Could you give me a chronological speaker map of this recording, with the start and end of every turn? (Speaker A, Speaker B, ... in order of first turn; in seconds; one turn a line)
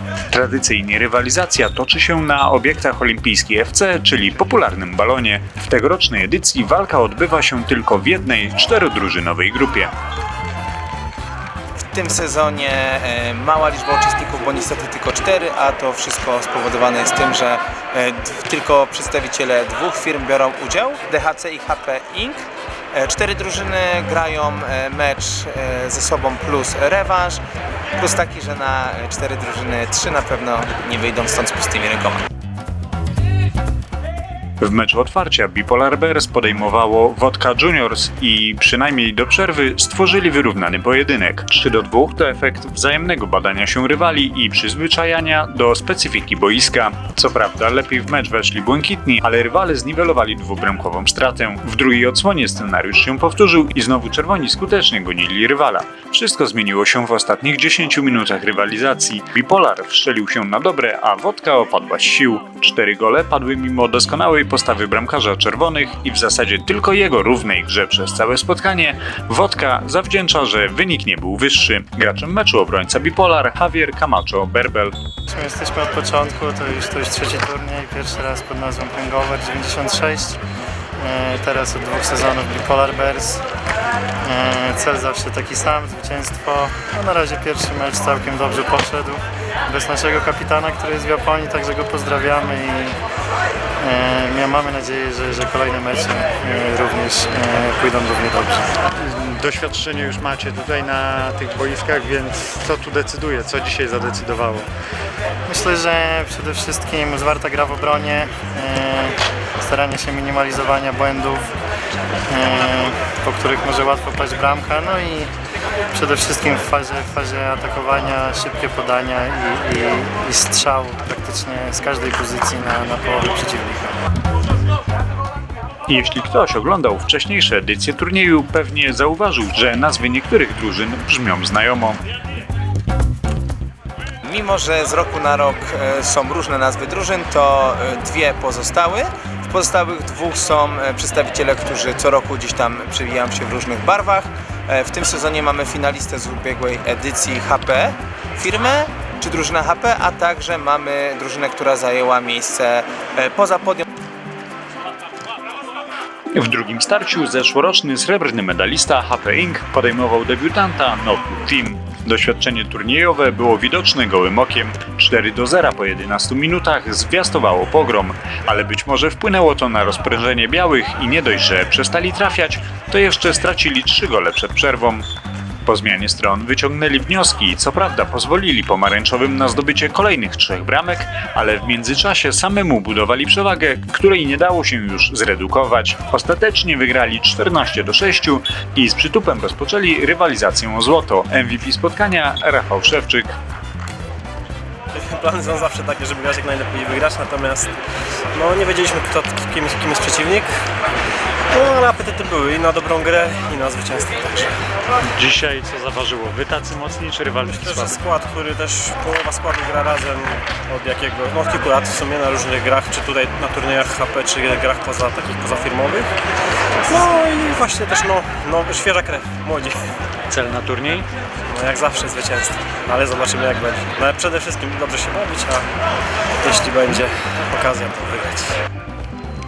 Speaker A: 0.3-9.9
Speaker B: 11.9-27.4
Speaker B: 28.0-32.2
Speaker A: 34.6-74.9
Speaker C: 75.3-80.4
Speaker C: 81.0-83.4
Speaker C: 84.2-93.0
Speaker C: 93.8-98.7
Speaker D: 98.9-104.7
Speaker C: 105.5-111.5
Speaker C: 112.3-115.3
Speaker C: 115.9-123.9
Speaker A: 125.9-132.0
Speaker B: 134.2-153.8
Speaker A: 156.3-175.1
Speaker A: 175.7-193.3
Speaker E: 194.9-197.8
Speaker E: 198.3-200.5
Speaker E: 201.5-204.5
Speaker D: 205.1-208.0
Speaker E: 207.4-216.1
Speaker E: 216.8-219.8
Speaker D: 220.3-221.1
Speaker E: 221.5-225.7
Speaker E: 226.4-228.6